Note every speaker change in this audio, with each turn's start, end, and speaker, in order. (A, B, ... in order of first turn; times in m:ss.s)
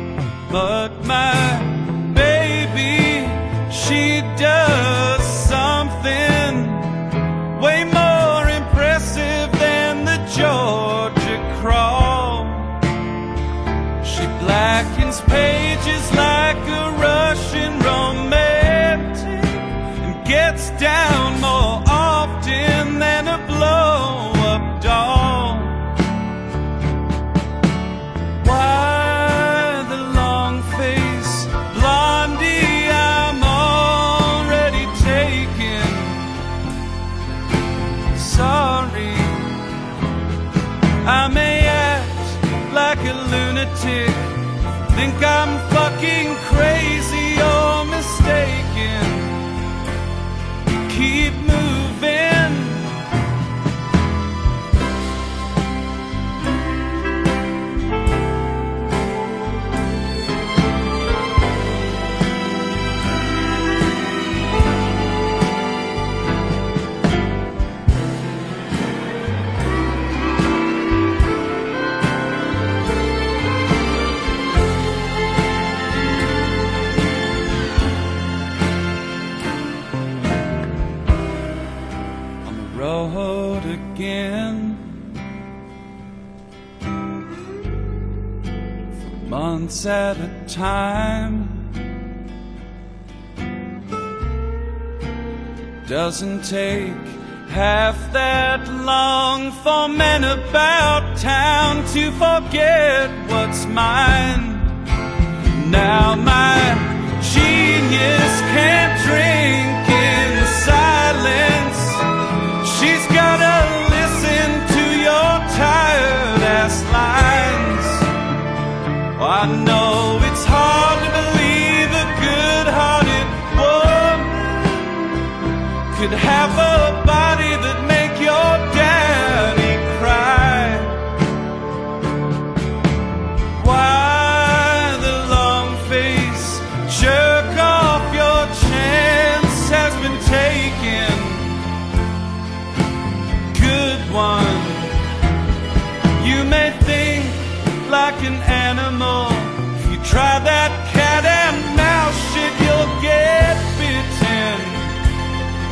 0:00.4-0:12.8 A
0:14.0-0:26.0 A
0:28.4-0:36.3 A
0:38.1-0:39.5 A
0:41.0-0:49.4 A
0:50.8-0:52.9 A
1:22.4-1:25.0 A
1:29.2-1:31.7 A
1:35.8-1:44.9 A
1:45.5-1:52.1 A
1:52.6-1:58.1 A
1:59.2-2:05.0 A
2:05.9-2:11.1 A
2:13.5-2:21.7 A
2:23.5-2:25.0 A
2:26.2-2:35.0 A